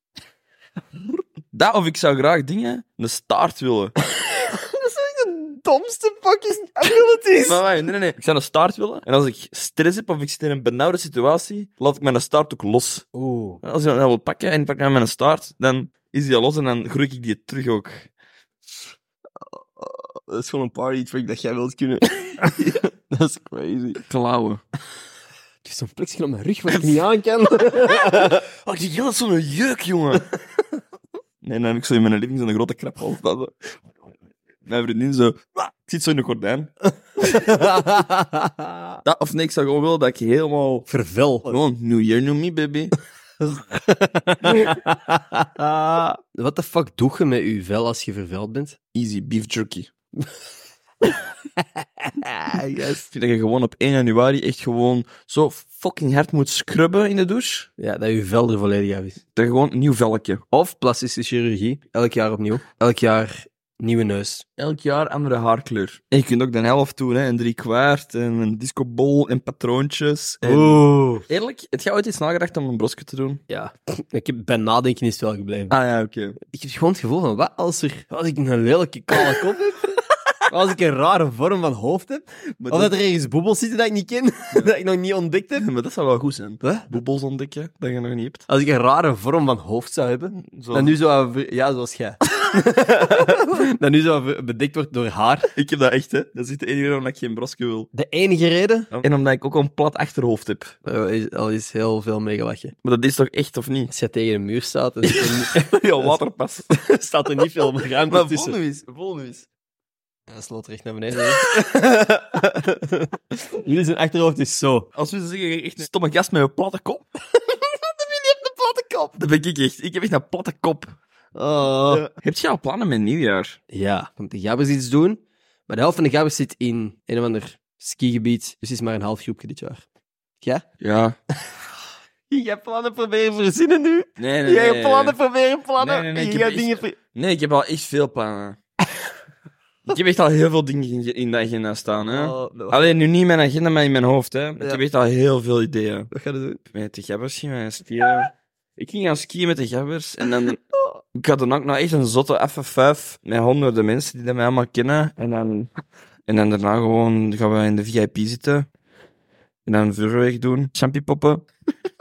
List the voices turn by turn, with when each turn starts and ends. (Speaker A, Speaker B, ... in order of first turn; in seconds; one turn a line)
Speaker A: 1.5-3.9
Speaker B: 4.2-7.6
Speaker A: 7.4-13.1
Speaker B: 13.1-13.6
Speaker A: 13.6-18.1
Speaker B: 19.5-24.0
Speaker A: 21.9-22.5
Speaker A: 24.1-24.6
Speaker B: 25.6-28.4
Speaker A: 26.7-27.1
Speaker A: 27.7-30.3
Speaker A: 31.4-33.5
Speaker A: 34.7-36.7
Speaker B: 37.2-39.0
Speaker A: 39.0-40.9
Speaker B: 40.9-41.6
Speaker A: 41.5-42.9
Speaker B: 43.4-48.8
Speaker A: 48.9-49.9
Speaker B: 51.6-53.1
Speaker A: 53.1-57.7
Speaker B: 57.8-59.2
Speaker A: 59.4-60.4
Speaker B: 60.5-64.4
Speaker A: 64.6-73.4
Speaker B: 70.4-71.3
Speaker B: 73.5-75.8
Speaker A: 75.7-76.4
Speaker B: 76.4-85.7
Speaker A: 82.6-83.0
Speaker A: 85.6-88.5
Speaker B: 86.6-86.9
Speaker B: 88.5-95.5
Speaker A: 90.3-91.0
Speaker A: 95.5-97.9
Speaker B: 97.9-98.9
Speaker A: 98.9-100.7
Speaker B: 100.8-102.7
Speaker A: 102.8-103.9
Speaker B: 103.9-108.6
Speaker A: 105.0-106.7
Speaker A: 108.1-109.5
Speaker B: 110.3-114.9
Speaker A: 111.1-111.5
Speaker A: 115.0-117.1
Speaker B: 117.4-119.2
Speaker A: 119.2-121.0
Speaker B: 121.3-122.1
Speaker A: 121.9-123.6
Speaker B: 123.7-129.8
Speaker B: 130.4-130.7
Speaker A: 130.8-131.2
Speaker B: 132.3-137.0
Speaker A: 134.2-135.2
Speaker A: 135.8-138.6
Speaker A: 139.9-146.1
Speaker B: 142.1-142.8
Speaker B: 146.1-146.6
Speaker A: 146.7-150.6
Speaker B: 150.3-151.0
Speaker A: 151.2-155.7
Speaker A: 156.3-158.7
Speaker A: 159.7-161.4